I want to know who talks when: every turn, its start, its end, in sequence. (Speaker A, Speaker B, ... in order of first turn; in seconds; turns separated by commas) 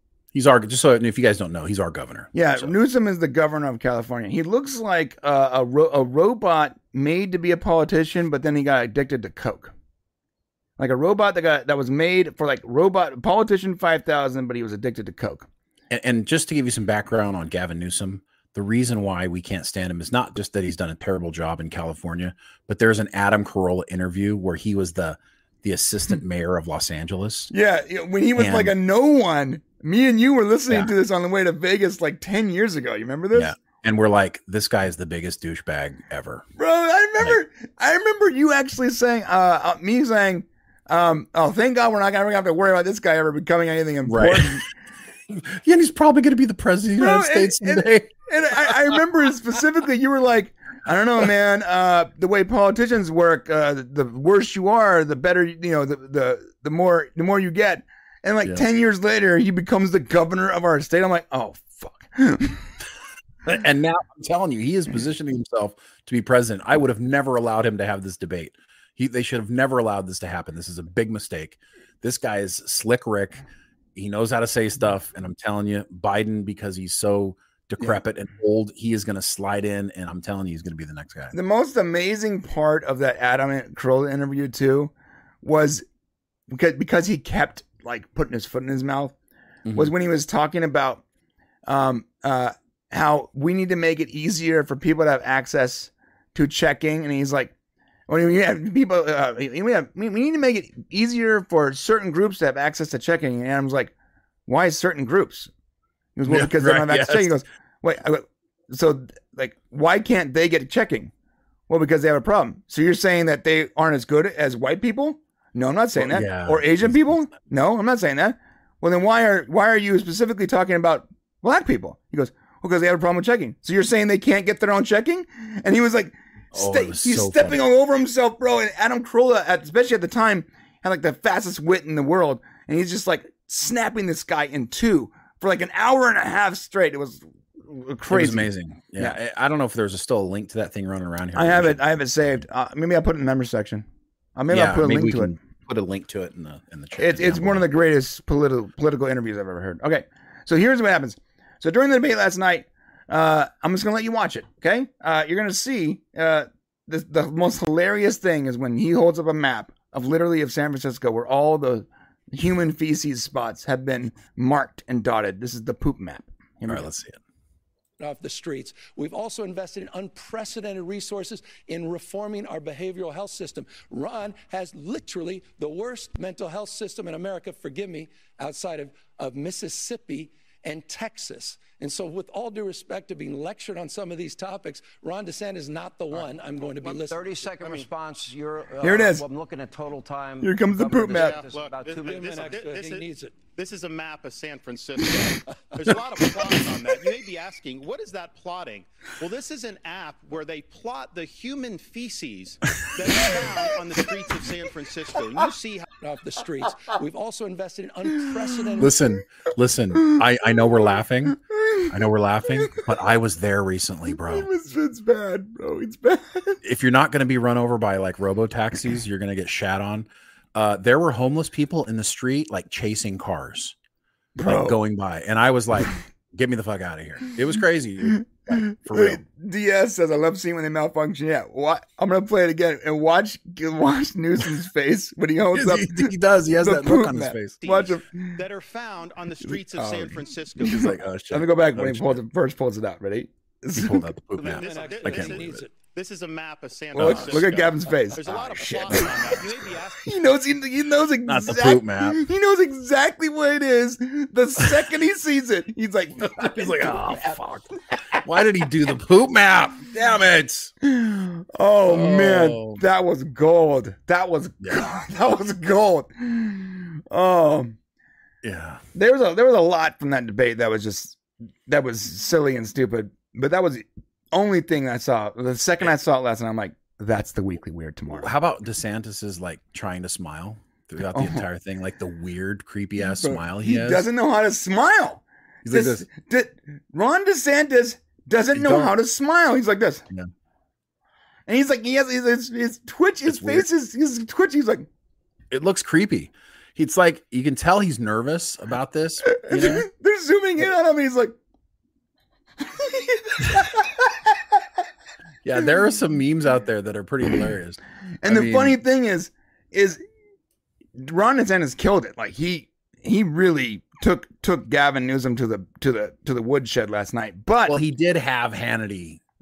Speaker A: 0.3-2.8, Speaker B: 2.3-9.7, Speaker B: 10.8-15.5, Speaker A: 15.9-27.5, Speaker B: 27.5-33.5, Speaker A: 28.4-28.7, Speaker A: 33.3-36.5, Speaker B: 36.6-44.6, Speaker A: 44.0-44.6, Speaker A: 45.3-49.0, Speaker B: 47.0-62.7, Speaker A: 63.5-73.4, Speaker A: 73.9-81.3, Speaker B: 81.3-85.8, Speaker B: 86.5-89.1, Speaker A: 89.7-89.9, Speaker B: 89.7-91.0, Speaker B: 91.7-97.5, Speaker B: 98.1-103.9, Speaker B: 104.5-105.5, Speaker B: 106.2-111.1, Speaker A: 106.3-107.3, Speaker B: 111.7-139.2, Speaker A: 116.0-117.3, Speaker A: 126.5-127.6, Speaker A: 138.1-141.8, Speaker B: 141.3-145.3, Speaker A: 144.5-147.7, Speaker B: 147.0-166.9, Speaker A: 166.7-167.2, Speaker C: 168.0-187.9, Speaker D: 186.8-192.6, Speaker B: 188.8-189.2, Speaker B: 190.4-191.4, Speaker E: 191.1-205.9, Speaker C: 191.9-193.4, Speaker C: 206.0-208.9, Speaker A: 208.8-214.5, Speaker B: 211.5-211.9, Speaker B: 214.2-216.6, Speaker A: 216.6-223.8, Speaker B: 224.3-224.8, Speaker A: 224.4-229.2, Speaker B: 228.5-238.4, Speaker A: 235.5-237.6, Speaker E: 237.6-241.0, Speaker B: 239.7-244.1, Speaker A: 240.6-242.2, Speaker A: 243.7-245.6, Speaker E: 244.4-250.1, Speaker C: 244.4-245.6, Speaker A: 246.9-247.4, Speaker B: 247.0-249.1, Speaker A: 248.9-249.1, Speaker B: 250.0-257.4, Speaker A: 251.2-252.2, Speaker A: 256.2-260.7, Speaker B: 260.8-267.7, Speaker A: 261.9-262.8, Speaker A: 268.4-268.8, Speaker B: 268.9-278.3, Speaker A: 278.1-284.0, Speaker B: 281.1-281.4, Speaker B: 283.0-290.0, Speaker A: 285.6-286.1, Speaker A: 288.5-288.9, Speaker B: 291.5-294.9, Speaker A: 293.3-293.7, Speaker A: 295.5-299.9, Speaker B: 299.2-301.4, Speaker B: 302.7-304.4, Speaker A: 305.4-308.8, Speaker B: 308.2-310.0, Speaker B: 311.0-317.8, Speaker A: 317.6-319.2